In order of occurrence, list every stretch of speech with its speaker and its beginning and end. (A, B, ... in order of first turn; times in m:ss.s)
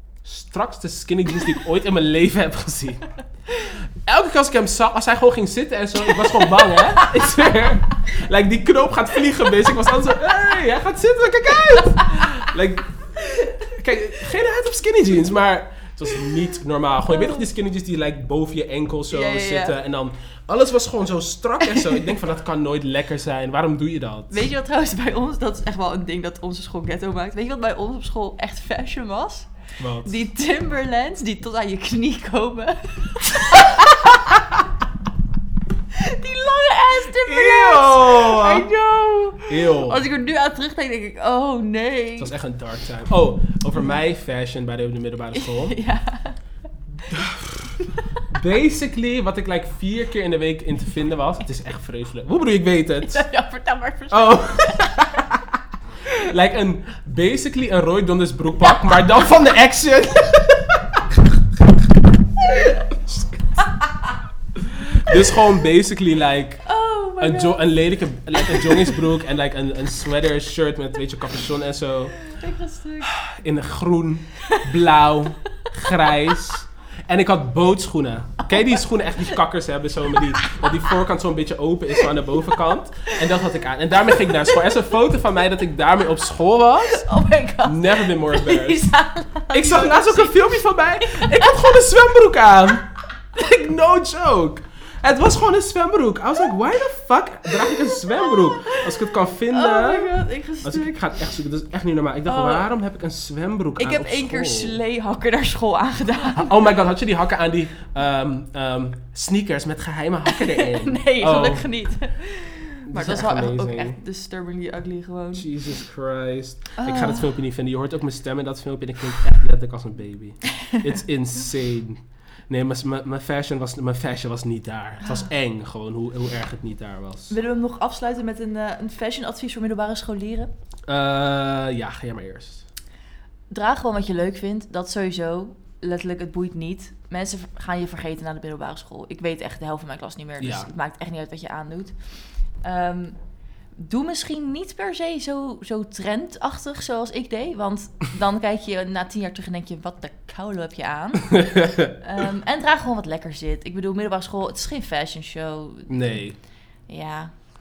0:00.2-0:24.4 A
0:06.0-0:07.3 B
0:12.0-0:12.3 B
0:13.2-0:13.7 B
0:17.1-0:17.4 B
0:19.1-0:19.8 B
0:21.7-0:22.1 B
0:24.3-0:29.5 B
0:29.8-0:30.2 A
0:30.0-0:34.6 B
0:35.9-0:42.3 B
0:37.1-0:38.7 A
0:39.5-0:40.0 A
0:42.2-0:45.8 A
0:45.3-0:46.4 B
0:47.1-0:47.8 A
0:47.8-0:48.2 B
0:48.3-0:53.2 A
0:53.0-0:55.3 B
0:54.1-0:55.6 A
0:56.1-1:00.8 A
1:02.4-1:02.8 B
1:03.6-1:04.1 B
1:04.6-1:06.6 A
1:05.1-1:05.4 B
1:06.6-1:07.7 B
1:07.2-1:12.1 A
1:08.5-1:09.0 B
1:12.2-1:13.1 B
1:13.0-1:27.1 A
1:14.4-1:15.0 B
1:15.9-1:16.4 B
1:18.4-1:18.8 B
1:20.2-1:20.9 B
1:22.0-1:22.5 B
1:23.0-1:23.4 B
1:23.9-1:24.9 B
1:26.8-1:32.0 B
1:27.6-1:28.9 A
1:29.5-1:44.8 A
1:37.5-1:41.1 B
1:42.2-1:42.7 B
1:43.8-1:46.6 B
1:46.2-1:51.7 A
1:50.3-1:55.5 B
1:52.9-1:54.0 A
1:55.3-2:07.4 A
1:56.8-1:57.3 B
2:00.5-2:00.8 B
2:05.0-2:05.3 B
2:07.3-2:10.5 B
2:10.9-2:12.6 A
2:13.5-2:21.9 B
2:20.4-2:20.7 A
2:22.6-2:23.2 B
2:23.8-2:36.2 B
2:31.2-2:31.9 A
2:35.9-2:36.4 A
2:36.9-2:37.3 B